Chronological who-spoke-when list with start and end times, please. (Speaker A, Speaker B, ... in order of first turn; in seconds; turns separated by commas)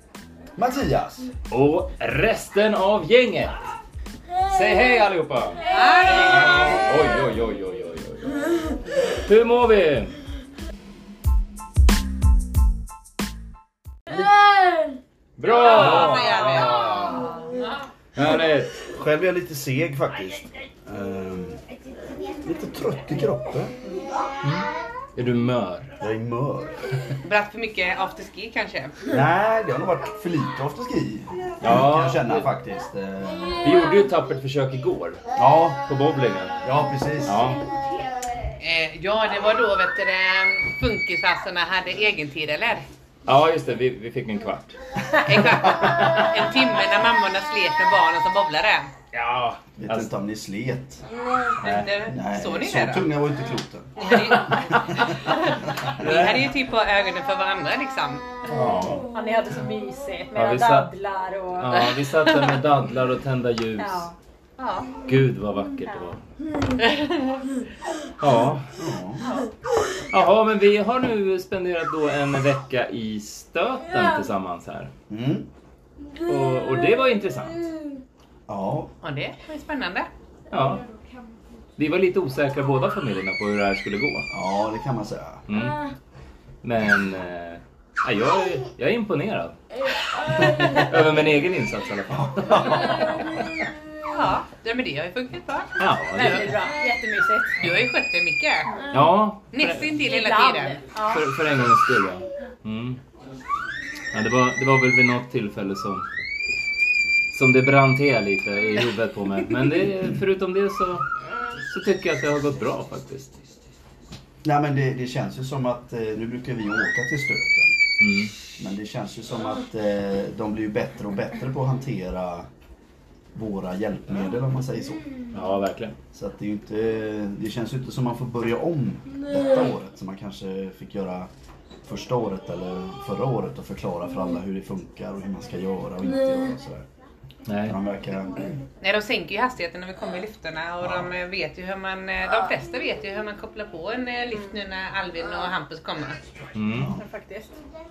Speaker A: 0.6-1.3, Speaker B: 1.5-3.7, Speaker B: 4.4-10.2, Speaker C: 5.7-6.8, Speaker B: 15.4-17.3, Speaker C: 15.4-17.8, Speaker B: 18.1-18.8, Speaker A: 18.8-21.6, Speaker A: 22.4-23.8, Speaker B: 24.4-26.0, Speaker A: 26.0-27.0, Speaker C: 27.2-29.1, Speaker A: 29.1-33.6, Speaker B: 31.6-32.5, Speaker B: 33.6-35.2, Speaker A: 35.3-35.8, Speaker B: 35.8-36.6, Speaker A: 36.6-37.4, Speaker B: 37.2-37.7, Speaker C: 38.6-42.9, Speaker B: 43.3-46.6, Speaker C: 45.2-48.9, Speaker B: 49.1-50.1, Speaker A: 49.8-51.0, Speaker A: 51.6-54.0, Speaker C: 51.6-53.0, Speaker C: 54.0-58.3, Speaker A: 54.7-55.0, Speaker A: 55.8-56.4, Speaker B: 58.5-59.0, Speaker D: 59.1-61.8, Speaker B: 60.3-60.9, Speaker B: 61.6-64.1, Speaker C: 61.7-62.6, Speaker D: 63.8-64.1, Speaker C: 64.6-65.0, Speaker B: 65.0-66.2, Speaker D: 65.9-66.2, Speaker C: 66.8-67.4, Speaker B: 68.2-68.7, Speaker A: 68.8-69.2, Speaker B: 70.1-74.9, Speaker A: 75.1-75.5, Speaker B: 76.2-77.7, Speaker A: 78.5-78.9, Speaker C: 79.0-80.1, Speaker B: 80.5-80.8, Speaker B: 81.8-84.3, Speaker A: 84.3-85.4, Speaker B: 85.5-85.9, Speaker B: 86.6-89.5, Speaker B: 90.2-93.5, Speaker A: 92.1-93.2, Speaker C: 94.0-96.5, Speaker B: 95.8-96.5, Speaker D: 96.1-97.6, Speaker C: 97.6-98.8, Speaker B: 98.9-100.0, Speaker C: 99.5-100.8, Speaker D: 100.0-101.2, Speaker B: 101.1-103.0, Speaker B: 104.1-106.0, Speaker B: 107.3-111.0, Speaker B: 111.7-113.4, Speaker A: 114.4-117.8, Speaker B: 118.0-118.3, Speaker A: 118.6-122.5, Speaker A: 123.3-125.1, Speaker B: 125.3-125.9, Speaker A: 126.1-131.3, Speaker A: 131.8-136.8, Speaker B: 137.4-137.8, Speaker A: 137.6-138.5, Speaker C: 138.8-146.2, Speaker A: 140.8-141.1, Speaker B: 146.5-146.9, Speaker A: 146.7-147.0, Speaker D: 146.9-147.5